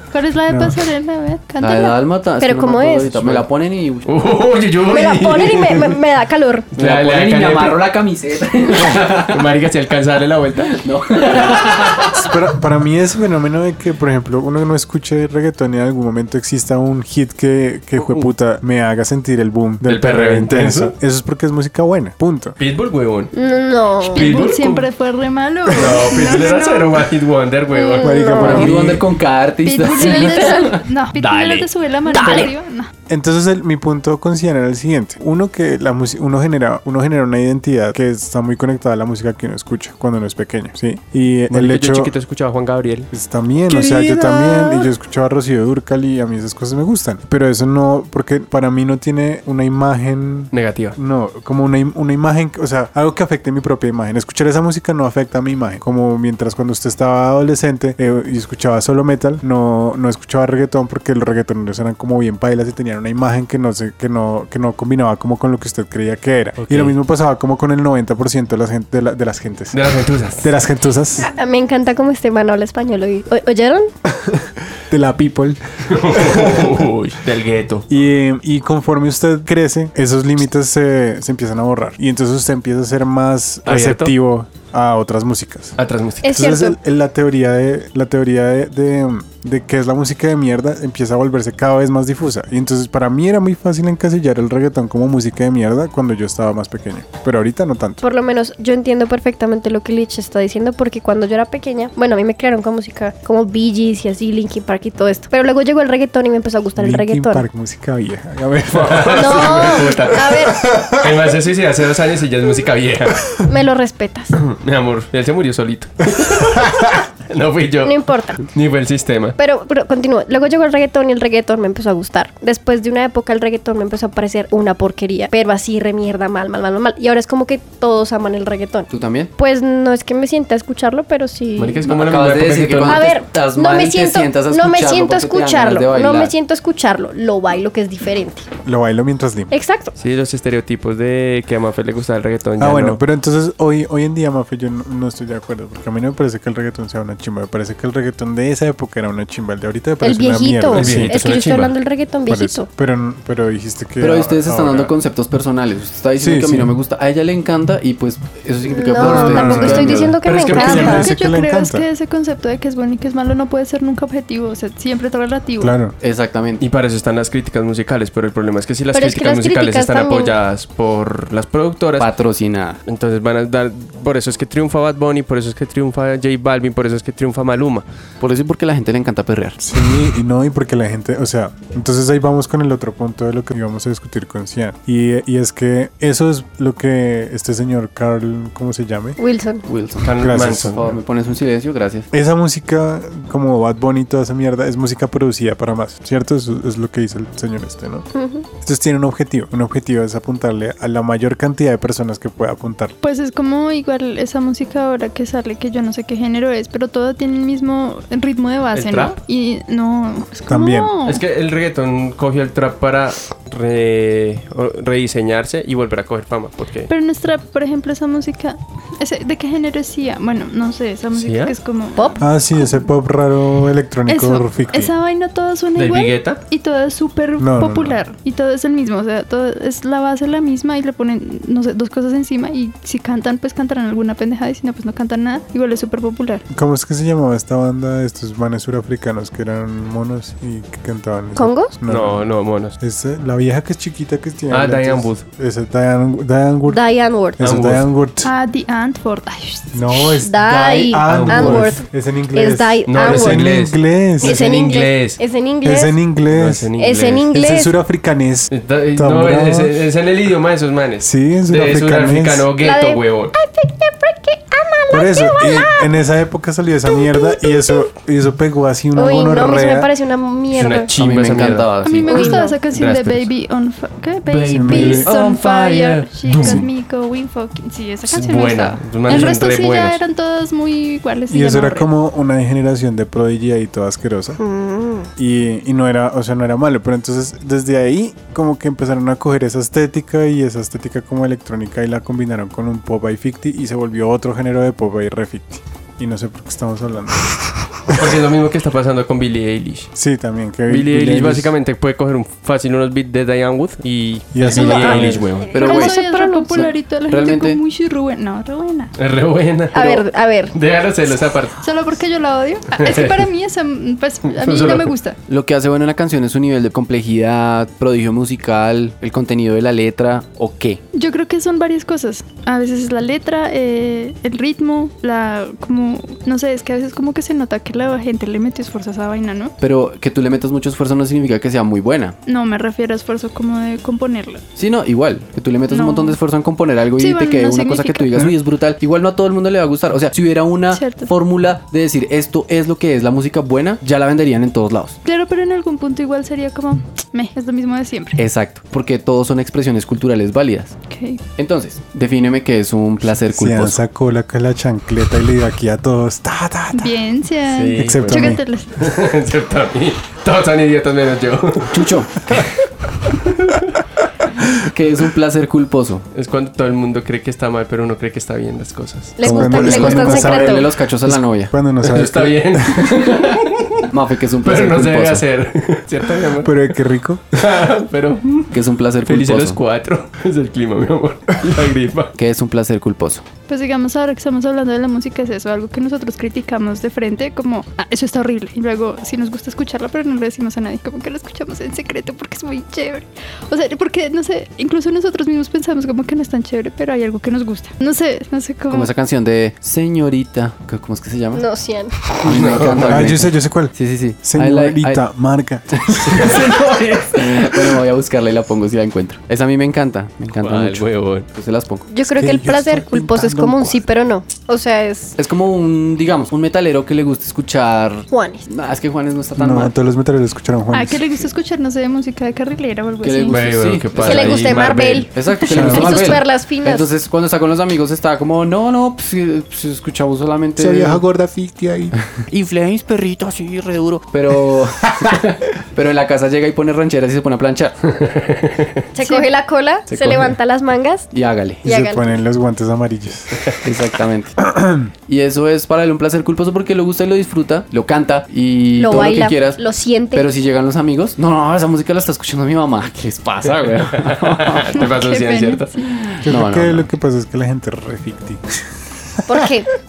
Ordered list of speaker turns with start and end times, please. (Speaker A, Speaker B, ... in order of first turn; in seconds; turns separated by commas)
Speaker A: 0.1-2.0, Speaker B: 0.5-0.8, Speaker C: 1.6-4.1, Speaker D: 2.4-3.3, Speaker E: 4.0-6.0, Speaker D: 4.9-6.7, Speaker E: 6.7-7.8, Speaker C: 6.8-9.5, Speaker E: 8.7-10.8, Speaker C: 10.7-12.2, Speaker E: 11.3-12.1, Speaker B: 12.2-22.6, Speaker E: 19.8-20.9, Speaker E: 22.6-23.3, Speaker D: 23.3-24.4, Speaker E: 24.0-24.9, Speaker A: 24.1-27.1, Speaker E: 25.7-29.0, Speaker D: 27.7-28.7, Speaker B: 28.0-29.1, Speaker C: 28.4-30.8, Speaker A: 29.6-32.9, Speaker D: 30.1-30.6, Speaker E: 31.2-31.6, Speaker C: 32.1-32.5, Speaker B: 33.1-42.1, Speaker E: 41.5-43.1, Speaker B: 43.1-69.8, Speaker E: 43.7-44.9, Speaker E: 50.5-51.0, Speaker E: 66.6-66.9, Speaker E: 69.7-70.5, Speaker B: 70.4-71.3, Speaker D: 71.2-73.9, Speaker B: 74.2-76.8, Speaker E: 75.9-77.8, Speaker B: 77.9-85.8, Speaker E: 83.6-84.1, Speaker E: 85.8-86.3, Speaker D: 86.2-86.8, Speaker B: 86.3-98.0, Speaker D: 98.0-107.5, Speaker B: 106.8-111.3, Speaker E: 108.7-113.2, Speaker D: 109.1-110.7, Speaker D: 113.5-114.3, Speaker E: 114.4-119.3, Speaker D: 117.8-118.4, Speaker D: 119.4-131.9, Speaker C: 128.9-129.3, Speaker E: 131.6-133.2, Speaker C: 131.8-136.3, Speaker D: 132.9-138.4, Speaker B: 138.7-139.5, Speaker D: 139.5-139.9, Speaker E: 140.0-143.0, Speaker B: 142.6-151.5, Speaker D: 150.0-152.7, Speaker E: 150.7-151.7, Speaker B: 152.3-154.9, Speaker C: 154.0-160.1, Speaker B: 156.2-156.7, Speaker D: 158.7-161.1, Speaker B: 158.9-161.8, Speaker E: 159.2-161.0, Speaker A: 160.5-165.7, Speaker B: 165.6-165.9, Speaker C: 166.0-166.6, Speaker E: 166.6-172.1, Speaker D: 168.9-170.3, Speaker C: 172.0-172.8, Speaker E: 172.8-177.8, Speaker C: 178.2-179.6, Speaker B: 179.6-189.2, Speaker D: 189.2-189.6, Speaker C: 189.7-192.1, Speaker E: 190.0-190.9, Speaker B: 190.2-190.9, Speaker B: 192.1-198.1, Speaker D: 198.1-198.4, Speaker B: 198.6-202.9, Speaker A: 203.0-211.2, Speaker E: 208.7-209.2, Speaker B: 210.5-211.0, Speaker E: 211.0-216.9, Speaker A: 216.9-222.8, Speaker E: 221.1-221.5, Speaker D: 221.9-222.2, Speaker B: 222.2-224.9, Speaker A: 224.1-236.4, Speaker E: 225.8-226.4, Speaker B: 227.4-228.0, Speaker B: 236.5-242.3, Speaker D: 241.3-241.7, Speaker E: 241.9-242.8, Speaker B: 242.8-246.8, Speaker E: 244.5-245.2, Speaker D: 246.7-247.4, Speaker B: 247.4-248.3, Speaker E: 247.4-247.8, Speaker A: 248.2-250.1, Speaker B: 249.7-254.4, Speaker D: 250.2-253.4, Speaker E: 251.0-251.7, Speaker E: 252.9-255.2, Speaker D: 254.2-256.0, Speaker B: 255.6-256.7, Speaker E: 256.3-257.3, Speaker D: 256.8-257.7, Speaker B: 257.3-259.9, Speaker E: 258.5-263.3, Speaker B: 261.0-262.5, Speaker D: 262.6-265.9, Speaker B: 264.9-269.9, Speaker D: 266.9-267.8, Speaker D: 268.9-270.9, Speaker E: 270.5-271.8, Speaker C: 271.0-272.3, Speaker A: 271.8-281.9, Speaker D: 272.1-272.6, Speaker E: 272.7-273.3, Speaker E: 274.3-276.6, Speaker B: 274.5-275.1, Speaker E: 278.1-280.0, Speaker B: 281.3-284.4, Speaker D: 284.4-285.1, Speaker B: 285.2-298.1, Speaker E: 297.9-299.9, Speaker B: 299.9-301.5, Speaker E: 300.7-305.6, Speaker B: 304.3-305.3, Speaker D: 304.5-306.7, Speaker C: 305.5-305.9, Speaker A: 305.5-308.9, Speaker C: 306.5-307.6, Speaker E: 309.0-311.6, Speaker D: 309.7-310.5, Speaker A: 311.6-315.2, Speaker E: 312.8-313.2, Speaker E: 314.3-314.9, Speaker C: 315.3-320.8, Speaker A: 320.9-329.5, Speaker C: 329.6-332.1, Speaker A: 332.2-334.4, Speaker C: 334.6-345.0, Speaker A: 335.7-336.2, Speaker A: 337.0-338.1, Speaker A: 340.7-341.1, Speaker A: 345.0-348.2, Speaker C: 348.1-350.7, Speaker A: 350.9-351.2, Speaker C: 351.4-353.8, Speaker B: 353.2-357.0, Speaker A: 356.7-358.8, Speaker E: 357.5-363.7, Speaker B: 357.8-358.4, Speaker C: 361.7-362.1, Speaker C: 364.6-366.0, Speaker E: 366.1-369.2, Speaker D: 369.2-370.6, Speaker C: 369.2-371.5, Speaker B: 369.2-372.9, Speaker E: 371.8-373.9, Speaker C: 373.9-375.2, Speaker E: 374.4-376.6, Speaker B: 376.4-377.4, Speaker E: 377.3-382.1, Speaker C: 378.5-379.6, Speaker C: 382.1-383.2, Speaker A: 383.5-398.9, Speaker C: 398.7-401.4, Speaker D: 401.3-401.9, Speaker C: 402.2-405.0, Speaker E: 402.2-403.1, Speaker B: 402.7-406.4, Speaker C: 405.9-411.9, Speaker E: 410.4-411.3, Speaker D: 411.9-415.1, Speaker B: 412.0-413.9, Speaker C: 415.2-419.7, Speaker D: 418.1-418.4, Speaker B: 419.4-421.0, Speaker A: 420.7-423.5, Speaker C: 423.0-431.0, Speaker E: 423.3-425.1, Speaker D: 424.0-426.9, Speaker B: 425.5-426.1, Speaker B: 430.6-431.9, Speaker C: 432.3-437.8, Speaker E: 437.9-438.8, Speaker D: 438.9-441.1, Speaker C: 439.9-440.4, Speaker C: 441.1-441.6, Speaker D: 441.6-442.1, Speaker B: 441.6-443.5, Speaker C: 443.6-444.3, Speaker B: 444.4-444.9, Speaker C: 445.1-449.6, Speaker D: 448.8-450.3, Speaker C: 450.1-454.9, Speaker E: 453.9-455.7, Speaker A: 454.7-455.9, Speaker C: 456.1-456.9, Speaker B: 456.2-458.4, Speaker B: 459.1-459.5, Speaker D: 459.2-459.7